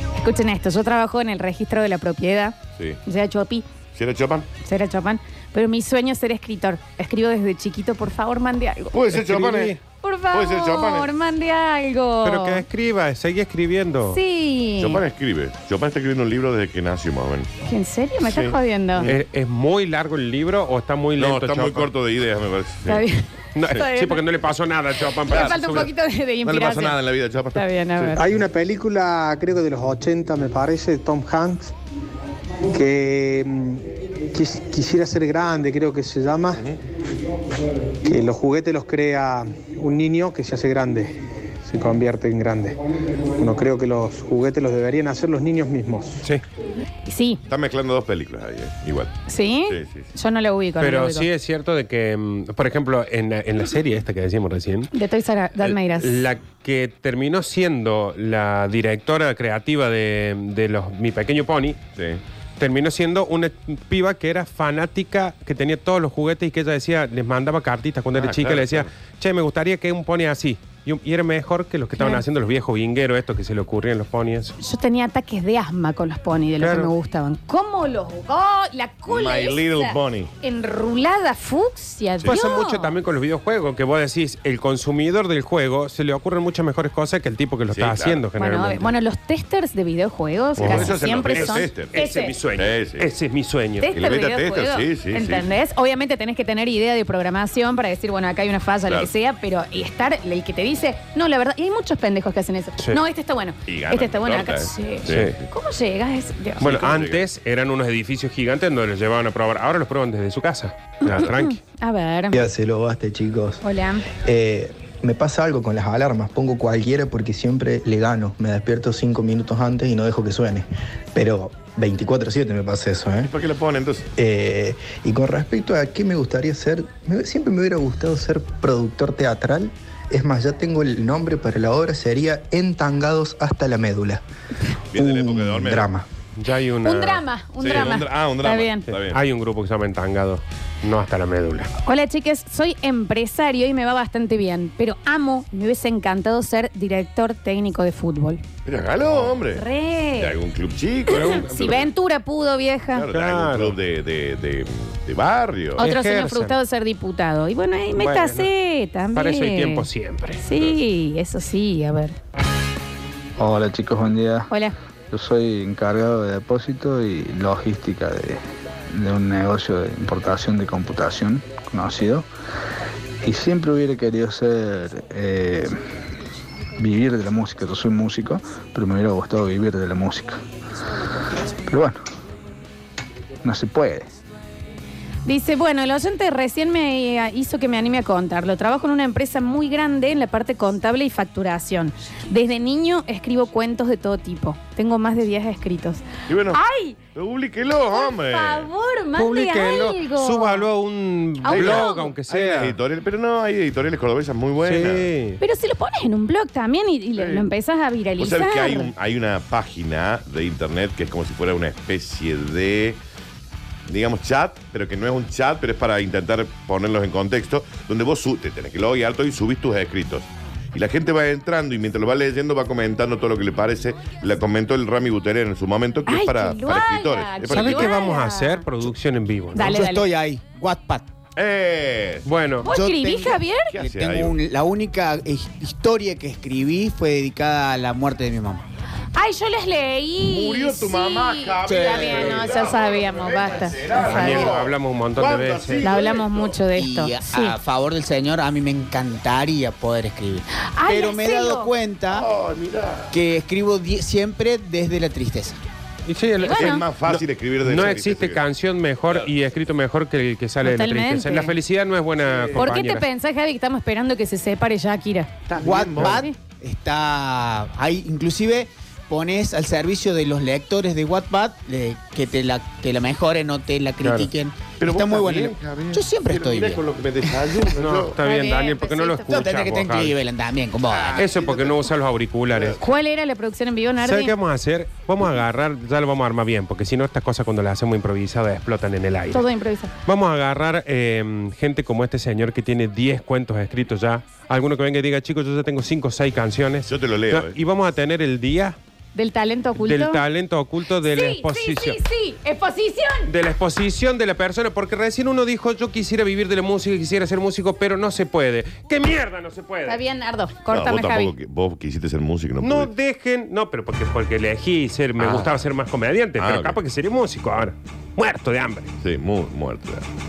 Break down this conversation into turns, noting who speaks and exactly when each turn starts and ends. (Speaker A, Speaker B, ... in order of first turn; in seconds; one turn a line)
Speaker A: 0.2-3.6
Speaker B: 3.9-4.5
Speaker A: 4.6-8.9
Speaker B: 8.9-9.8
Speaker C: 9.1-9.8
Speaker A: 10.0-12.6
Speaker B: 10.3-11.1
Speaker C: 12.2-14.2
Speaker A: 14.1-15.0
Speaker B: 14.8-17.5
Speaker A: 17.6-19.1
Speaker B: 18.2-19.2
Speaker C: 19.1-21.9
Speaker B: 21.2-23.0
Speaker A: 22.9-24.2
Speaker C: 23.6-25.9
Speaker A: 25.2-27.0
Speaker B: 25.3-25.9
Speaker B: 26.4-28.2
Speaker A: 27.5-28.2
Speaker D: 28.2-31.7
Speaker D: 32.7-36.6
Speaker B: 36.5-36.8
Speaker D: 38.0-42.8
Speaker D: 43.4-46.2
Speaker A: 47.0-47.4
Speaker B: 47.5-49.1
Speaker A: 49.3-51.3
Speaker B: 49.7-50.0
Speaker C: 50.8-54.9
Speaker A: 54.9-56.3
Speaker C: 55.6-61.8
Speaker C: 62.6-74.5
Speaker B: 68.1-68.9
Speaker A: 72.0-72.2
Speaker A: 74.6-82.9
Speaker C: 76.6-76.9
Speaker B: 79.0-80.3
Speaker C: 82.3-88.9
Speaker B: 87.7-88.2
Speaker A: 88.4-92.3
Speaker B: 90.6-92.0
Speaker C: 90.6-93.9
Speaker B: 92.5-93.1
Speaker A: 93.8-106.7
Speaker B: 93.9-95.5
Speaker B: 103.7-105.4
Speaker C: 105.1-105.3
Speaker B: 106.6-107.3
Speaker C: 106.6-111.6
Speaker A: 111.0-112.4
Speaker E: 112.3-113.6
Speaker A: 113.6-114.0
Speaker E: 114.2-123.3
Speaker B: 123.2-124.1
Speaker E: 124.2-134.2
Speaker B: 134.9-135.9
Speaker E: 134.9-136.1
Speaker C: 136.4-137.9
Speaker A: 136.8-138.9
Speaker B: 137.6-139.2
Speaker C: 138.9-141.7
Speaker A: 141.8-148.4
Speaker B: 148.7-149.6
Speaker C: 149.0-149.4
Speaker A: 149.5-150.3
Speaker B: 150.2-151.9
Speaker A: 151.1-153.1
Speaker C: 151.1-151.8
Speaker B: 152.9-155.9
Speaker C: 153.1-153.8
Speaker C: 155.8-156.5
Speaker A: 155.8-159.9
Speaker C: 157.9-158.5
Speaker C: 159.1-160.4
Speaker A: 160.4-162.1
Speaker F: 163.4-164.5
Speaker A: 164.5-164.8
Speaker F: 165.1-172.3
Speaker F: 173.2-175.8
Speaker F: 176.8-180.4
Speaker F: 181.3-182.0
Speaker F: 183.4-184.1
Speaker A: 185.2-197.0
Speaker B: 196.3-196.6
Speaker B: 197.1-198.7
Speaker A: 197.9-200.6
Speaker C: 199.2-202.8
Speaker A: 201.4-202.1
Speaker B: 201.5-205.1
Speaker C: 204.6-205.4
Speaker A: 205.4-208.9
Speaker B: 207.2-207.5
Speaker B: 208.2-213.0
Speaker B: 213.9-228.0
Speaker A: 226.1-228.6
Speaker C: 227.5-229.7
Speaker A: 229.6-230.1
Speaker G: 229.6-231.1
Speaker B: 231.3-232.3
Speaker C: 232.2-232.7
Speaker A: 232.6-233.8
Speaker G: 232.7-238.6
Speaker B: 233.7-234.4
Speaker A: 239.1-244.5
Speaker B: 240.2-246.6
Speaker G: 241.6-242.5
Speaker C: 243.9-245.9
Speaker A: 245.8-247.6
Speaker G: 246.7-252.2
Speaker A: 250.8-251.7
Speaker B: 252.1-253.2
Speaker G: 253.1-255.6
Speaker C: 256.1-263.0
Speaker A: 256.4-256.8
Speaker B: 256.5-258.4
Speaker B: 259.1-259.3
Speaker A: 260.6-261.5
Speaker B: 262.2-262.7
Speaker A: 262.6-265.3
Speaker B: 265.5-266.2
Speaker G: 265.6-277.4
Speaker A: 266.0-266.3
Speaker C: 274.0-274.3
Speaker B: 274.8-278.1
Speaker C: 277.8-280.2
Speaker A: 278.2-279.5
Speaker G: 279.3-281.4
Speaker B: 281.1-281.9
Speaker C: 281.2-282.8
Speaker B: 282.5-282.8
Speaker A: 282.8-284.3
Speaker C: 284.0-289.4
Speaker A: 289.3-289.9
Speaker C: 290.1-298.8
Speaker B: 296.8-297.6
Speaker A: 299.1-300.2
Speaker C: 299.8-302.0
Speaker A: 301.0-303.3
Speaker C: 303.3-310.0
Speaker A: 309.9-311.3
Speaker B: 310.7-312.9
Speaker C: 312.6-318.9
Speaker B: 315.2-315.5
Speaker B: 316.4-316.8
Speaker B: 319.0-320.0